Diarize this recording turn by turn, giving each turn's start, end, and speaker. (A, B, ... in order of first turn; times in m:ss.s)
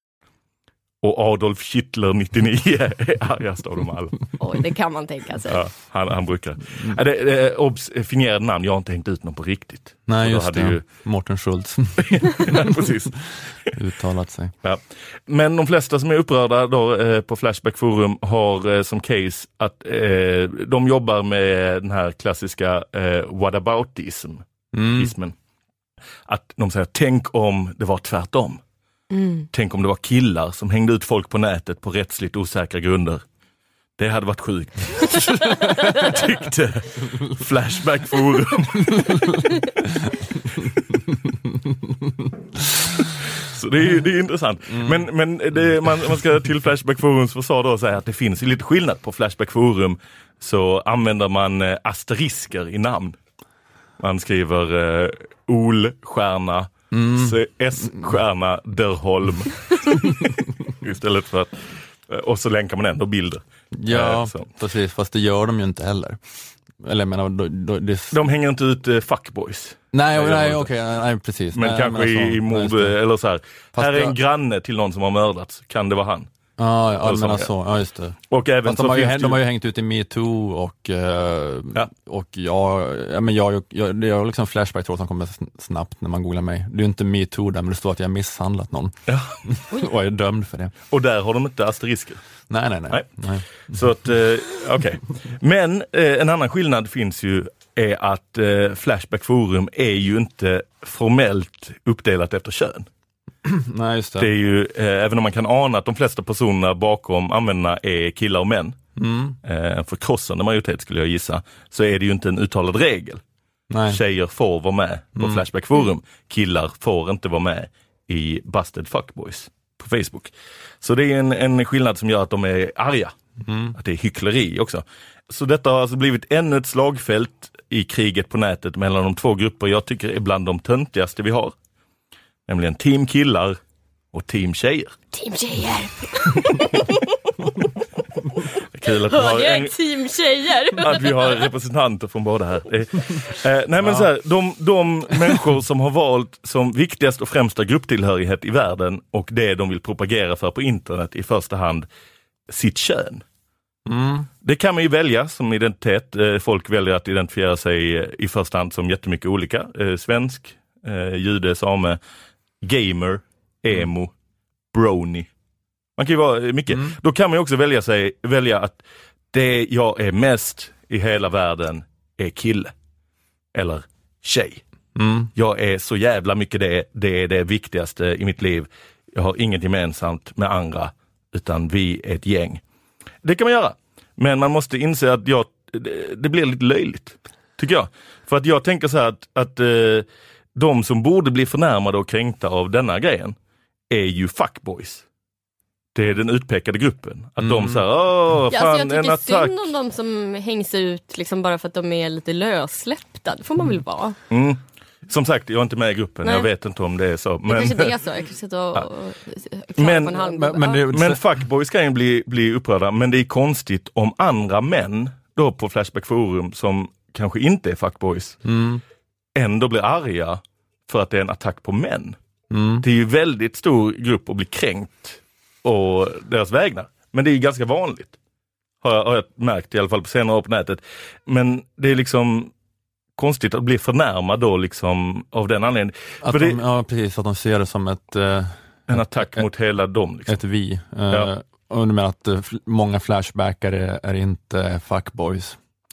0:01.0-0:04.3 A
0:04.4-0:05.6 B
0:05.5-0:10.9 A
0:10.1-0:12.7 C
0:12.0-0:13.8 A
0:13.8-0:14.5 C
0:14.6-0:25.3 A
0:24.7-0:25.1 C
0:26.3-0:28.6 A
0:29.1-0:29.5 B
0:29.5-0:33.2 A
0:34.0-0:39.4 A
0:43.4-0:53.2 A
0:44.7-0:45.1 C
0:54.0-1:04.5 A
0:56.9-0:58.1 C
1:03.8-1:06.2 C
1:06.8-1:08.2 C
1:08.1-1:10.7 A
1:09.9-1:13.0 C
1:11.5-1:16.3 A
1:13.8-1:14.2 C
1:16.6-1:29.0 C
1:17.0-1:17.5 A
1:18.3-1:19.4 A
1:29.1-1:29.4 A
1:29.5-1:30.7 C
1:30.9-1:32.2 A
1:32.5-1:33.5 C
1:33.7-1:42.9 A
1:43.4-1:44.3 C
1:44.2-1:48.8 A
1:49.0-1:49.4 C
1:49.4-1:53.2 A
1:53.7-1:54.0 C
1:53.9-2:03.2 A
1:55.2-1:55.4 C
2:03.4-2:03.8 C
2:03.8-2:11.5 A
2:12.5-2:13.6 A
2:14.1-2:15.0 A
2:15.1-2:17.2 B
2:18.7-2:19.8 A
2:18.9-2:21.4 B
2:20.8-2:31.9 A
2:23.8-2:24.1 C
2:32.5-2:33.2 A
2:33.9-2:34.3 C
2:34.4-2:42.0 A
2:42.6-2:44.1 A
2:44.7-2:45.3 A
2:46.0-2:48.8 A
2:49.3-2:52.7 A
2:53.6-2:54.6 A
2:55.0-2:55.3 C
2:55.4-3:02.6 A
3:03.2-3:13.4 A
3:13.9-3:15.0 A
3:16.0-3:19.6 A
3:17.4-3:17.8 C
3:18.5-3:24.2 B
3:24.3-3:27.9 A
3:27.5-3:30.8 B
3:29.8-3:30.3 A
3:30.2-3:31.2 C
3:30.9-3:38.4 A
3:38.4-3:38.8 C
3:39.4-3:42.2 A
3:42.5-3:42.8 C
3:42.8-3:48.2 A
3:48.8-3:52.5 A
3:53.2-3:56.6 A
3:56.2-3:59.5 C
3:58.9-4:00.4 A
4:00.3-4:05.6 C